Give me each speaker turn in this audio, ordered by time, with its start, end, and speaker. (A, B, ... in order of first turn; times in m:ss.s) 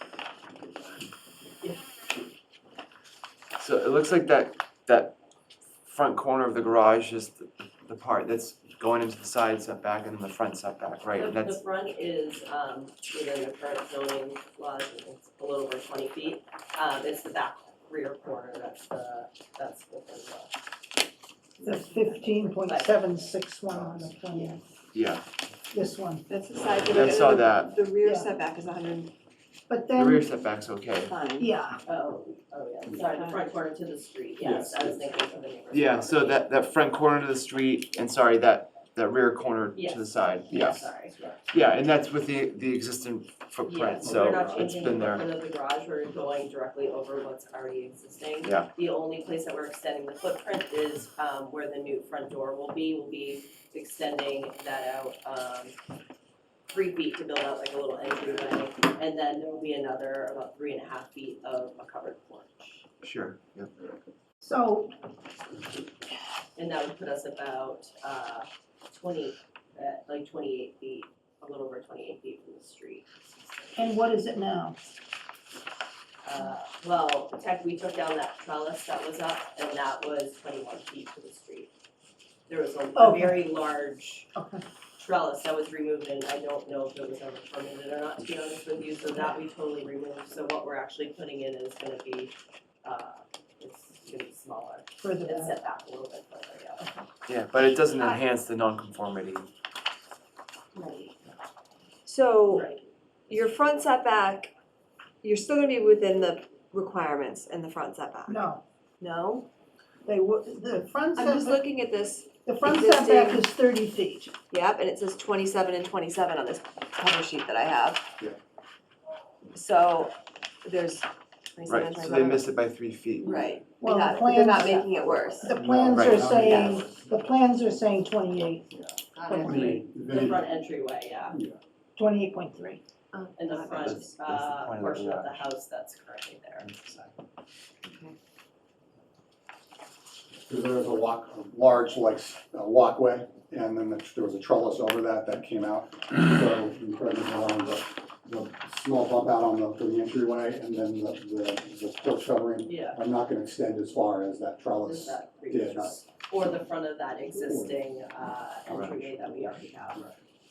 0:03.6-0:05.2 A
0:05.9-0:11.6 A
0:11.2-0:20.5 B
0:21.6-0:23.0 B
0:21.6-0:24.6 C
0:23.7-0:24.1 D
0:24.9-0:25.2 A
0:25.7-0:26.3 C
0:26.3-0:29.1 E
0:26.9-0:27.8 A
0:28.0-0:28.3 C
0:29.7-0:30.3 C
0:29.9-0:31.2 A
0:31.0-0:31.5 E
0:31.4-0:31.8 C
0:31.9-0:36.5 B
0:33.0-0:33.4 E
0:34.4-0:35.0 D
0:35.7-0:40.9 A
0:39.7-0:41.5 B
0:41.5-0:45.3 A
0:43.7-0:55.7 B
0:44.0-0:44.9 D
0:48.4-0:48.7 A
0:56.7-1:02.8 B
1:03.0-1:03.7 A
1:04.4-1:04.9 C
1:06.6-1:14.0 B
1:13.8-1:14.8 C
1:16.2-1:21.7 B
1:22.5-1:24.3 B
1:23.0-1:23.4 C
1:24.4-1:24.6 C
1:25.0-1:32.3 B
1:32.8-1:36.9 B
1:35.0-1:35.5 C
1:36.8-1:37.1 C
1:37.3-1:39.5 A
1:40.8-1:41.1 E
1:42.1-1:42.7 E
1:42.5-1:42.8 B
1:43.3-1:44.5 E
1:45.2-1:48.5 E
1:48.3-1:48.6 C
1:49.0-1:49.5 E
1:50.0-1:51.6 C
1:51.2-1:53.5 E
1:52.4-1:54.3 C
1:54.5-1:58.1 E
1:59.5-2:02.5 E
2:01.7-2:03.6 A
2:03.2-2:05.6 E
2:03.8-2:04.9 C
2:05.4-2:08.7 C
2:05.5-2:07.1 D
2:05.9-2:06.3 A
2:06.4-2:06.8 E
2:08.7-2:10.5 D
2:09.2-2:09.5 E
2:09.3-2:09.9 C
2:09.3-2:11.4 B
2:11.3-2:11.6 D
2:12.0-2:12.8 C
2:13.1-2:14.1 E
2:13.4-2:16.7 B
2:13.8-2:15.6 A
2:16.6-2:17.2 A
2:17.8-2:18.2 E
2:20.5-2:36.1 D
2:32.6-2:33.0 B
2:34.8-2:40.0 B
2:37.3-2:37.7 D
2:38.7-2:39.0 A